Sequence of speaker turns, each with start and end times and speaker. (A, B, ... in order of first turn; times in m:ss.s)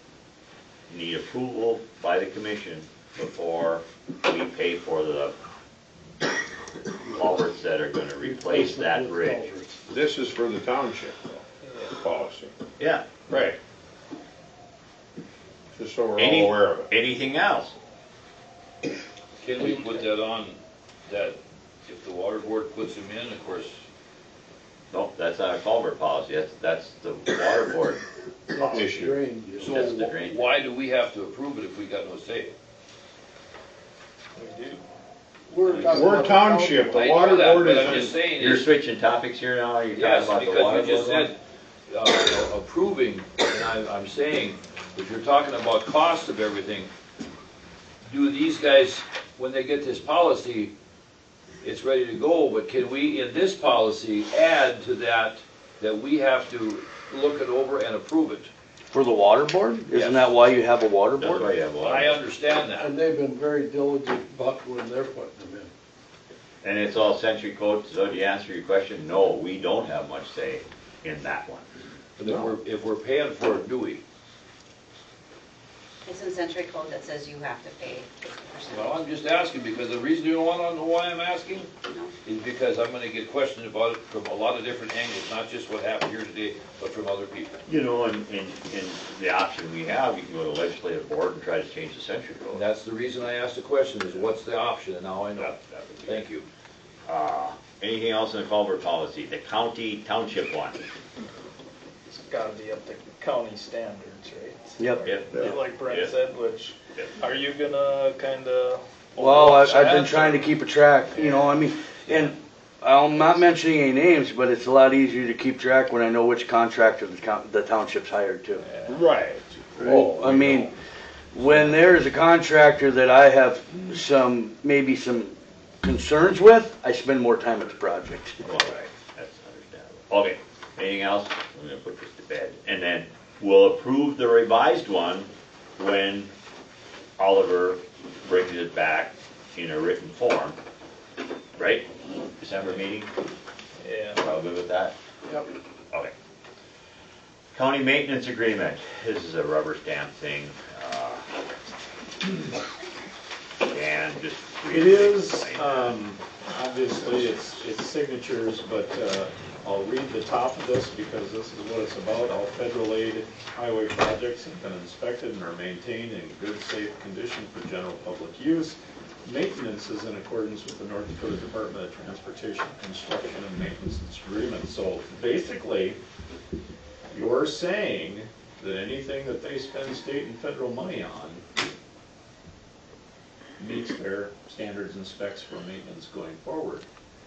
0:00.9-0:05.3 A
0:07.1-0:09.5 A
0:08.2-0:09.8 B
0:09.9-0:12.5 C
0:12.8-0:13.2 A
0:13.3-0:13.6 C
0:15.7-0:16.9 C
0:16.2-0:17.8 A
0:19.4-0:23.8 D
0:24.9-0:30.5 A
0:28.5-0:29.7 B
0:28.7-0:29.1 C
0:29.6-0:32.6 D
0:34.4-0:34.8 E
0:35.5-0:37.0 B
0:35.7-0:36.1 A
0:35.8-0:38.2 C
0:36.9-0:38.7 D
0:38.3-0:41.3 A
0:39.9-0:41.4 D
0:41.9-0:46.9 D
0:48.0-0:50.7 D
0:51.6-0:58.5 D
0:58.9-1:01.5 F
0:59.9-1:00.3 D
1:01.2-1:02.2 A
1:01.8-1:02.9 D
1:02.8-1:05.7 B
1:06.6-1:11.7 A
1:12.2-1:14.0 D
1:16.0-1:19.0 G
1:18.7-1:21.7 D
1:21.8-1:22.1 G
1:22.2-1:27.6 D
1:27.7-1:32.6 A
1:32.5-1:35.5 D
1:35.4-1:36.2 A
1:36.1-1:36.5 D
1:37.1-1:40.8 A
1:42.1-1:50.5 E
1:44.8-1:45.6 F
1:45.0-1:46.2 A
1:46.9-1:47.2 A
1:49.2-1:58.7 F
1:51.2-1:51.6 E
1:58.7-1:59.0 E
1:58.9-2:00.7 C
1:59.8-2:00.7 F
2:01.3-2:08.4 F
2:08.4-2:16.3 A
2:17.2-2:20.6 A
2:21.6-2:23.1 A
2:23.8-2:24.2 E
2:24.2-2:25.0 A
2:27.5-2:31.2 A
2:33.6-2:36.0 A
2:34.7-2:56.0 H
2:57.1-3:01.4 H
3:03.6-3:06.9 H